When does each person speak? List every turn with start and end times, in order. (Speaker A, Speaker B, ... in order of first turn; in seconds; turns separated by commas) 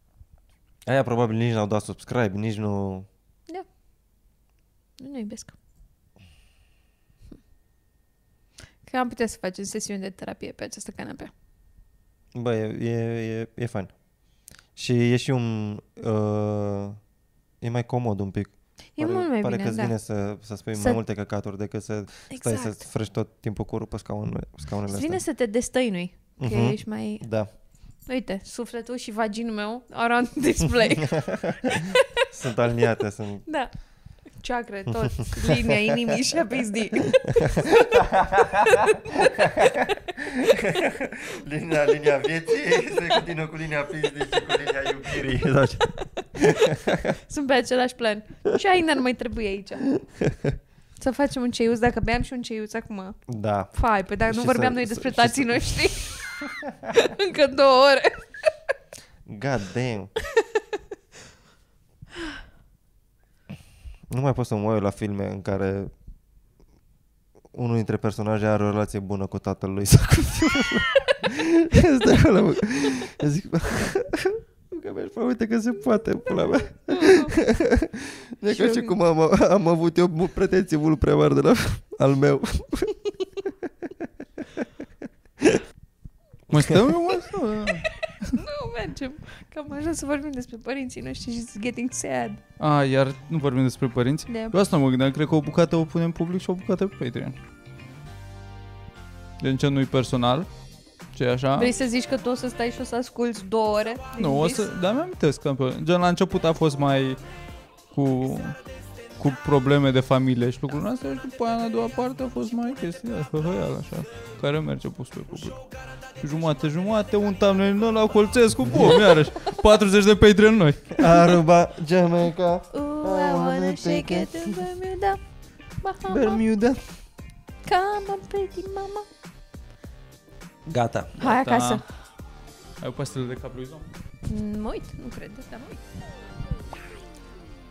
Speaker A: 0.8-3.1, Speaker B: 5.0-5.5, Speaker B: 8.8-11.3, Speaker A: 12.3-13.9, Speaker A: 14.8-17.0, Speaker A: 17.6-25.2, Speaker B: 18.9-19.9, Speaker B: 20.7-21.0, Speaker B: 22.3-22.7, Speaker B: 24.9-27.2, Speaker A: 26.4-27.5, Speaker B: 28.1-32.2, Speaker A: 31.1-33.4, Speaker B: 33.5-33.7, Speaker B: 34.4-37.9, Speaker A: 34.9-36.1, Speaker A: 37.3-47.1, Speaker B: 38.6-39.0, Speaker B: 39.6-40.0, Speaker B: 46.4-49.8, Speaker A: 50.2-50.5, Speaker B: 51.0-53.2, Speaker A: 53.3-53.7, Speaker B: 53.7-56.2, Speaker A: 54.2-55.7, Speaker B: 56.9-58.2, Speaker A: 59.3-60.1, Speaker B: 60.2-60.6, Speaker A: 64.1-65.9, Speaker A: 67.5-83.0, Speaker B: 76.8-77.3, Speaker B: 78.5-79.0, Speaker C: 86.5-88.4, Speaker B: 88.3-92.4, Speaker C: 92.6-97.3, Speaker B: 94.3-94.5, Speaker C: 99.4-100.5, Speaker C: 101.1-101.7, Speaker B: 101.6-104.7, Speaker C: 104.2-107.2, Speaker C: 107.9-108.5, Speaker C: 109.2-115.6, Speaker C: 116.2-121.0, Speaker A: 118.7-119.0, Speaker A: 121.0-124.5, Speaker B: 122.7-125.2, Speaker B: 125.8-126.4, Speaker A: 126.1-126.8, Speaker B: 127.6-129.1, Speaker A: 130.7-131.1, Speaker B: 131.2-131.8, Speaker C: 131.2-131.8, Speaker C: 132.8-133.8, Speaker B: 134.3-135.8